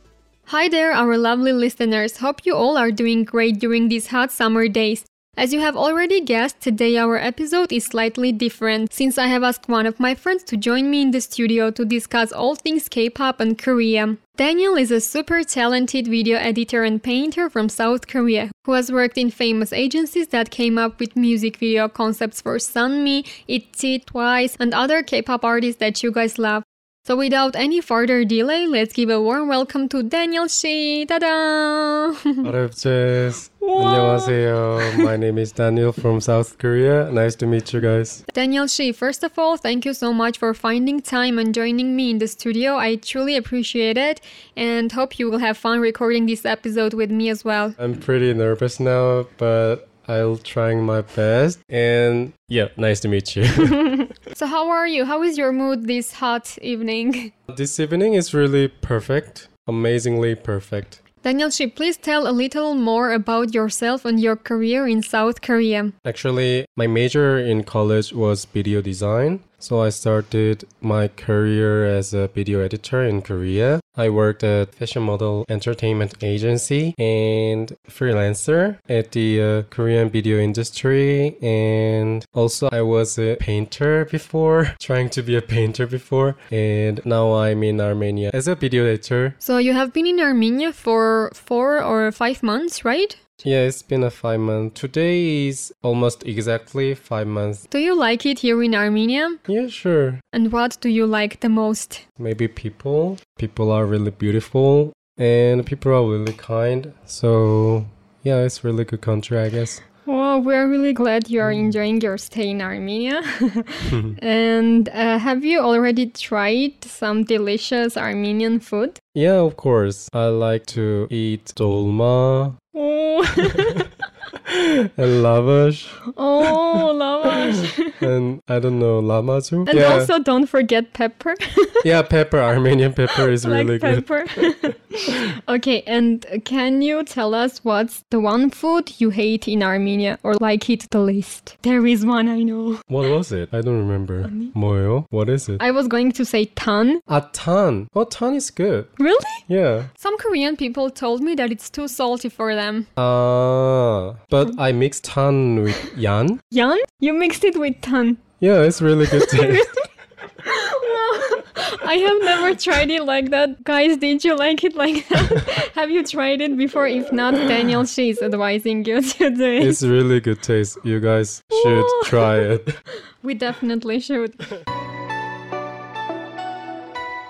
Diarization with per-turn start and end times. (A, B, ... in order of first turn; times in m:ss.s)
0:00.5-0:32.5 A
0:32.4-0:38.2 B
0:33.6-0:35.0 A
0:38.3-0:47.8 A
0:47.8-0:54.1 B
0:54.3-0:57.3 A
0:57.5-1:01.0 B
1:01.2-1:05.9 A
1:06.0-1:29.4 B
1:29.4-1:33.2 A
1:33.4-1:37.6 B
1:37.7-1:39.4 A
1:39.5-1:40.2 B
1:40.3-1:42.0 A
1:42.2-1:49.8 B
1:50.1-1:59.0 A
1:53.8-1:54.2 B
1:59.2-2:02.6 B
2:02.8-2:03.9 A
2:04.5-2:06.9 B
2:06.2-2:08.0 A
2:08.0-2:10.1 B
2:09.7-2:11.8 A
2:11.8-2:14.4 B
2:13.1-2:22.9 A
2:22.9-2:25.6 B
2:24.2-2:24.5 A
2:25.6-2:27.0 A
2:27.1-2:28.9 B
2:29.0-2:29.4 A
2:29.5-2:29.9 B
2:29.9-2:32.9 A
2:33.0-2:36.4 B
2:36.5-2:38.2 A
2:38.4-2:39.8 B
2:39.1-2:39.8 A
2:40.4-2:49.8 A
2:49.6-2:52.8 B
2:51.5-2:52.5 A
2:53.2-2:54.5 A